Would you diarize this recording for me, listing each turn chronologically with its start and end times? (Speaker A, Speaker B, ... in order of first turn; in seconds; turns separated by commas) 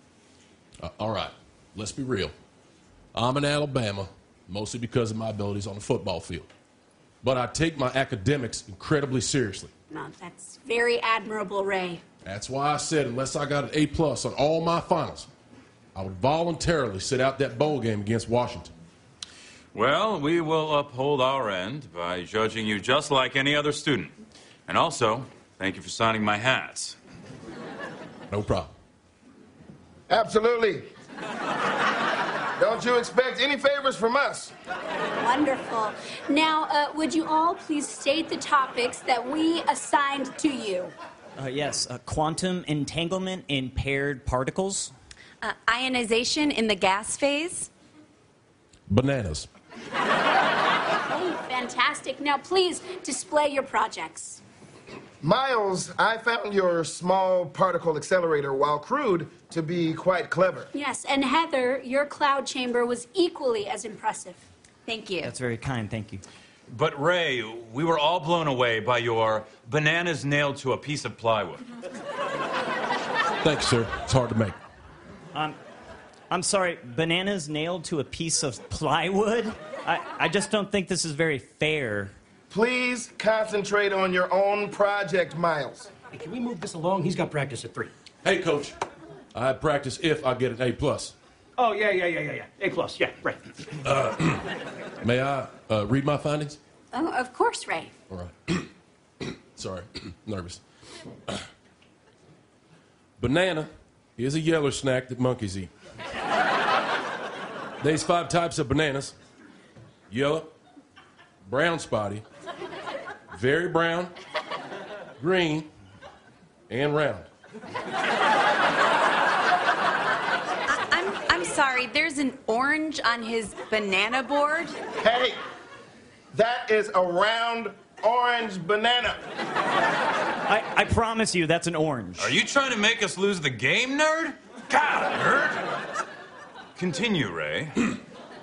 Speaker A: 0.8-2.3, Speaker A: 3.1-6.5, Speaker A: 7.2-9.7, Speaker B: 9.9-12.0, Speaker A: 12.3-15.3, Speaker A: 15.9-18.7, Speaker C: 19.7-24.1, Speaker C: 24.7-27.0, Speaker A: 28.3-28.7, Speaker D: 30.1-30.9, Speaker D: 32.6-34.5, Speaker B: 35.2-40.9, Speaker E: 41.4-44.9, Speaker F: 45.4-47.7, Speaker A: 48.9-49.5, Speaker B: 51.1-54.4, Speaker D: 55.2-60.7, Speaker B: 60.7-64.4, Speaker F: 64.9-65.3, Speaker E: 65.2-66.2, Speaker C: 66.7-71.6, Speaker A: 73.4-74.6, Speaker E: 76.3-82.1, Speaker D: 82.5-85.9, Speaker G: 86.1-87.9, Speaker A: 88.2-88.8, Speaker A: 89.3-91.1, Speaker G: 91.6-93.4, Speaker A: 93.8-94.5, Speaker A: 95.0-96.6, Speaker B: 96.9-97.9, Speaker A: 98.1-98.7, Speaker A: 99.2-100.6, Speaker A: 103.2-105.7, Speaker A: 107.8-109.1, Speaker A: 110.1-110.5, Speaker A: 111.5-112.2, Speaker A: 113.3-114.1, Speaker A: 115.2-115.7, Speaker A: 116.7-117.3, Speaker F: 120.7-124.8, Speaker D: 125.0-125.4, Speaker D: 126.3-129.2, Speaker E: 130.5-132.3, Speaker C: 132.2-135.8, Speaker C: 136.8-138.0